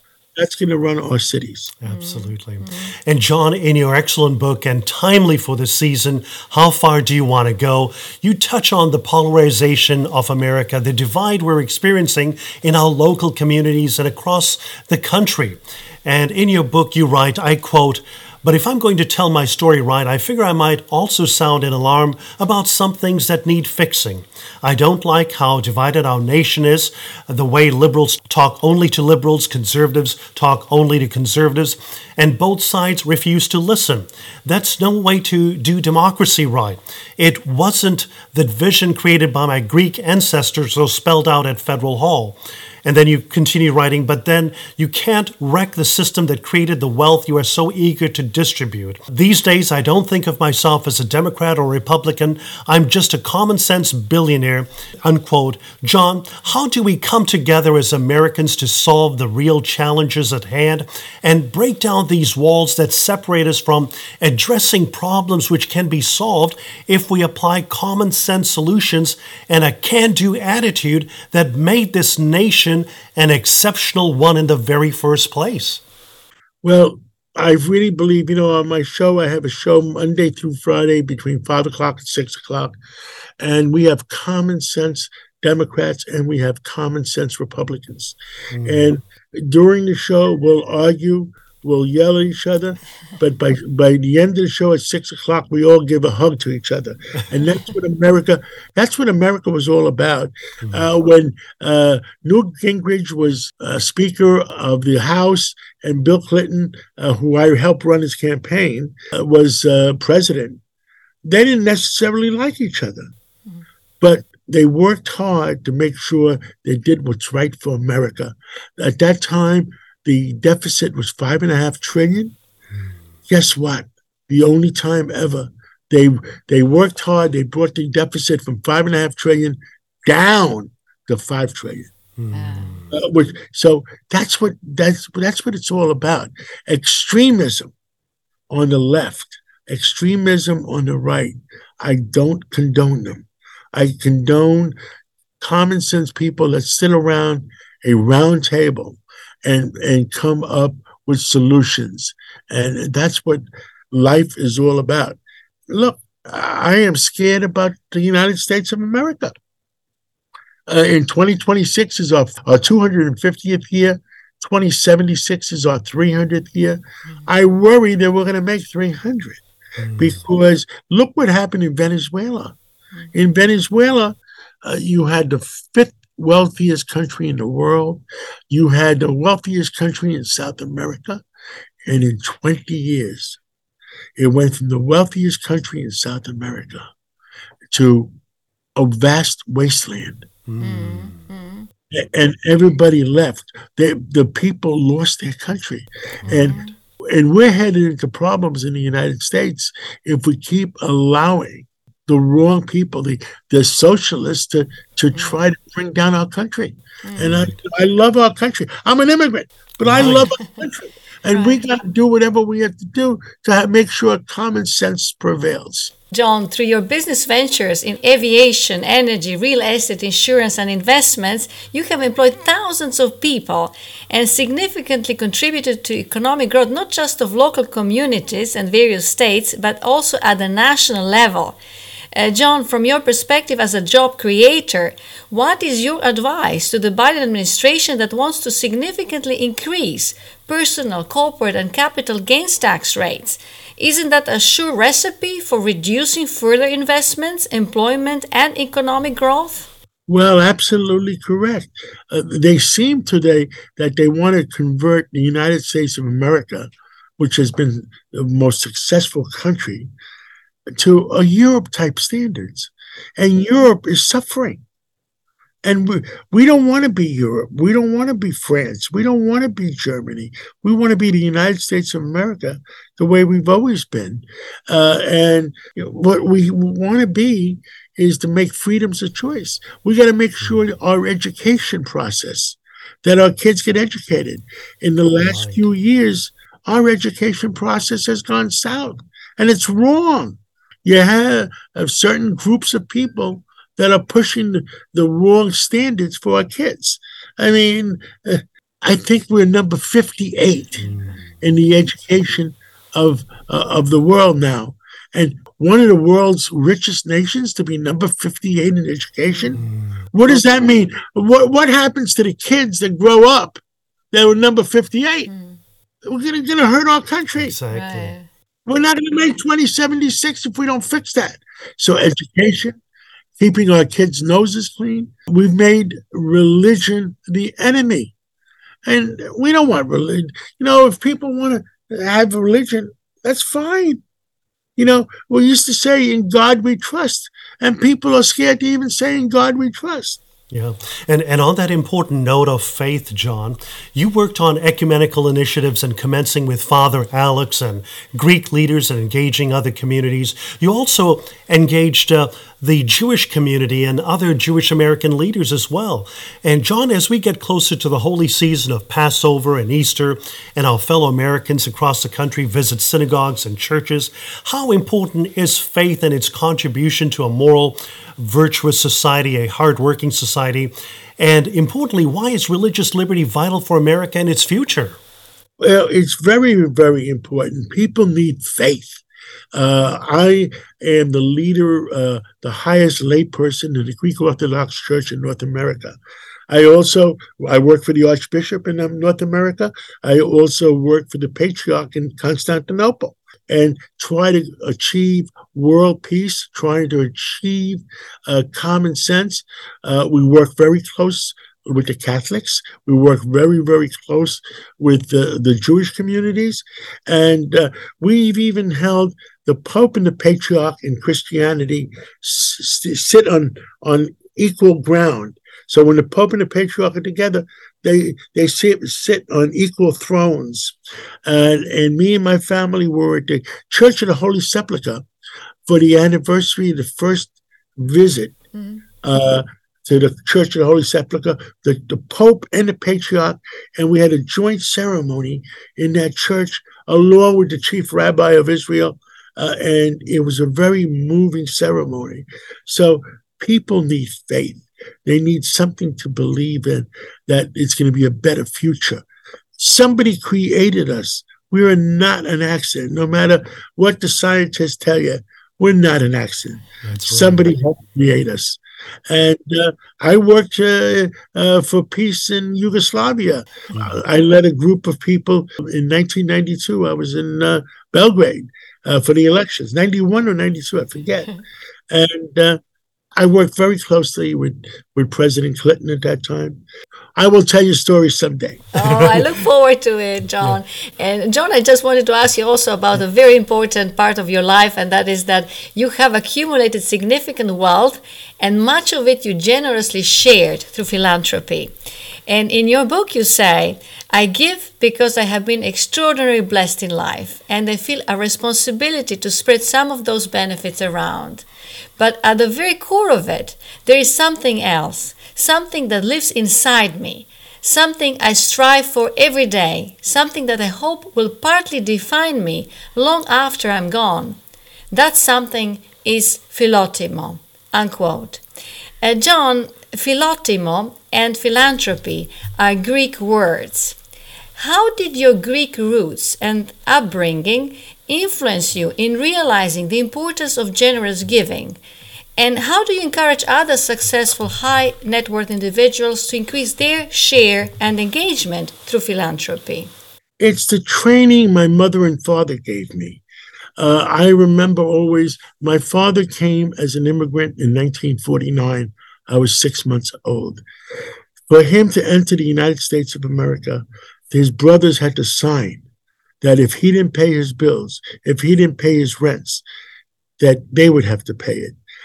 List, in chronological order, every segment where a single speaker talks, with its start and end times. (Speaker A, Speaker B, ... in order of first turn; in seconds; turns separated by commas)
Speaker A: 0.4-1.7, Speaker B: 1.8-75.8, Speaker C: 1.9-2.9, Speaker A: 76.6-82.8, Speaker A: 83.4-110.6, Speaker B: 88.5-88.9, Speaker A: 111.2-113.1, Speaker A: 114.0-122.4, Speaker A: 123.3-131.9, Speaker B: 132.2-132.9, Speaker C: 132.3-132.8, Speaker A: 132.9-137.7, Speaker A: 138.5-144.8, Speaker A: 145.4-159.3, Speaker A: 160.7-169.4, Speaker B: 169.8-170.2, Speaker A: 170.0-172.6, Speaker A: 173.1-181.2, Speaker A: 181.8-183.4, Speaker A: 184.2-186.9, Speaker A: 187.7-188.1, Speaker A: 188.8-190.3, Speaker B: 190.5-191.2, Speaker C: 190.6-191.7, Speaker A: 191.9-215.9, Speaker B: 196.2-196.6, Speaker C: 196.3-196.7, Speaker C: 207.1-207.4, Speaker B: 207.2-207.5, Speaker B: 209.8-210.3, Speaker C: 211.3-211.6, Speaker C: 216.1-231.6, Speaker C: 232.1-249.7, Speaker A: 250.1-259.9, Speaker A: 260.8-264.6, Speaker A: 265.6-300.9, Speaker B: 285.2-285.6, Speaker B: 300.8-301.2, Speaker A: 301.4-313.6, Speaker B: 309.6-309.9, Speaker A: 314.1-315.3, Speaker C: 315.3-315.6, Speaker A: 316.0-317.6, Speaker B: 317.4-318.1, Speaker C: 317.7-318.3, Speaker A: 318.7-322.8, Speaker A: 323.4-328.1, Speaker A: 328.9-334.0, Speaker A: 334.8-340.2, Speaker B: 340.5-375.0, Speaker A: 375.6-379.0, Speaker A: 379.5-386.0, Speaker A: 386.5-425.1, Speaker A: 425.7-428.4, Speaker C: 428.5-428.8, Speaker A: 429.0-449.1, Speaker A: 449.6-471.3, Speaker B: 456.8-457.4, Speaker B: 463.7-464.0, Speaker A: 471.9-472.6, Speaker A: 473.2-476.6, Speaker A: 477.2-478.7, Speaker C: 478.8-491.7, Speaker B: 478.8-479.2, Speaker C: 492.3-501.5, Speaker C: 502.0-514.4, Speaker C: 514.9-518.4, Speaker C: 519.0-524.0, Speaker C: 524.6-531.8, Speaker C: 532.4-539.9, Speaker A: 540.4-543.2, Speaker A: 543.8-550.6, Speaker A: 551.5-555.8, Speaker A: 556.4-559.6, Speaker A: 560.4-561.8